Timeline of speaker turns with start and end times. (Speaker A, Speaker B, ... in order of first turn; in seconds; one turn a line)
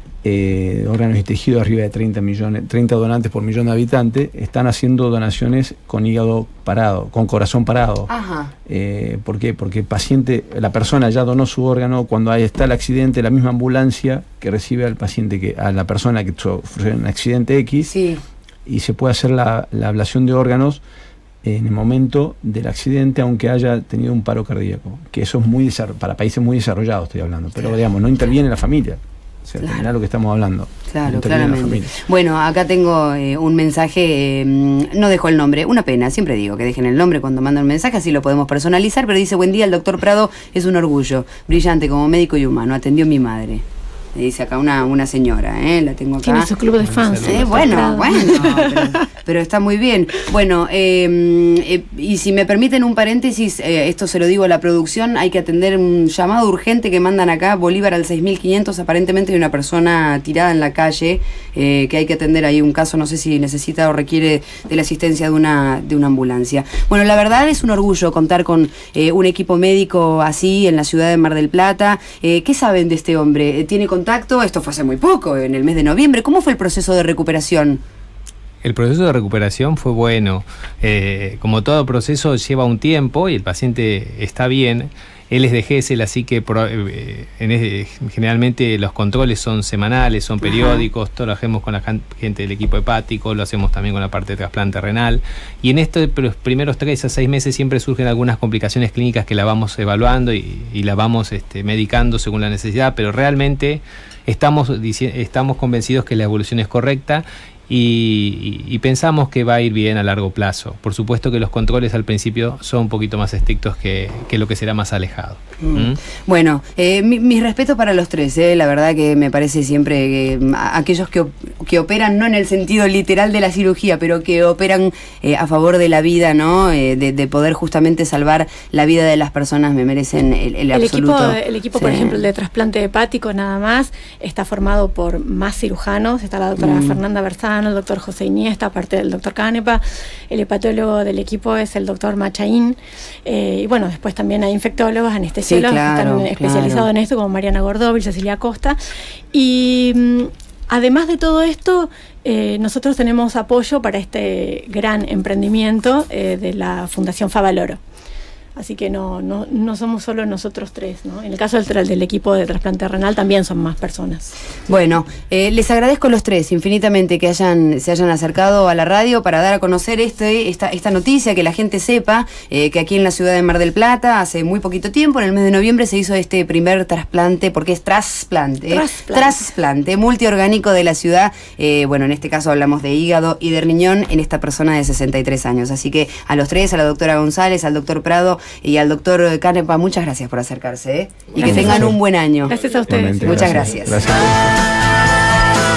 Speaker A: 0.2-8.1
Speaker B: 8.1-8.5
Speaker A: 8.7-17.9
Speaker B: 17.8-18.2
Speaker A: 18.6-20.8
Speaker A: 21.4-32.0
Speaker B: 29.6-29.9
Speaker B: 30.9-43.6
Speaker B: 44.1-46.5
Speaker C: 46.2-49.0
Speaker D: 46.8-48.2
Speaker B: 47.2-77.8
Speaker D: 78.6-116.0
Speaker B: 90.4-90.9
Speaker B: 115.6-132.2
Speaker C: 130.7-148.8
Speaker B: 136.6-137.0
Speaker B: 145.5-146.9
Speaker C: 149.3-157.8
Speaker C: 158.5-164.3
Speaker B: 164.7-192.5
Speaker C: 178.7-179.3
Speaker C: 191.3-191.9
Speaker A: 191.4-192.0
Speaker C: 192.5-193.8
Speaker A: 192.9-194.6
Speaker B: 193.2-194.0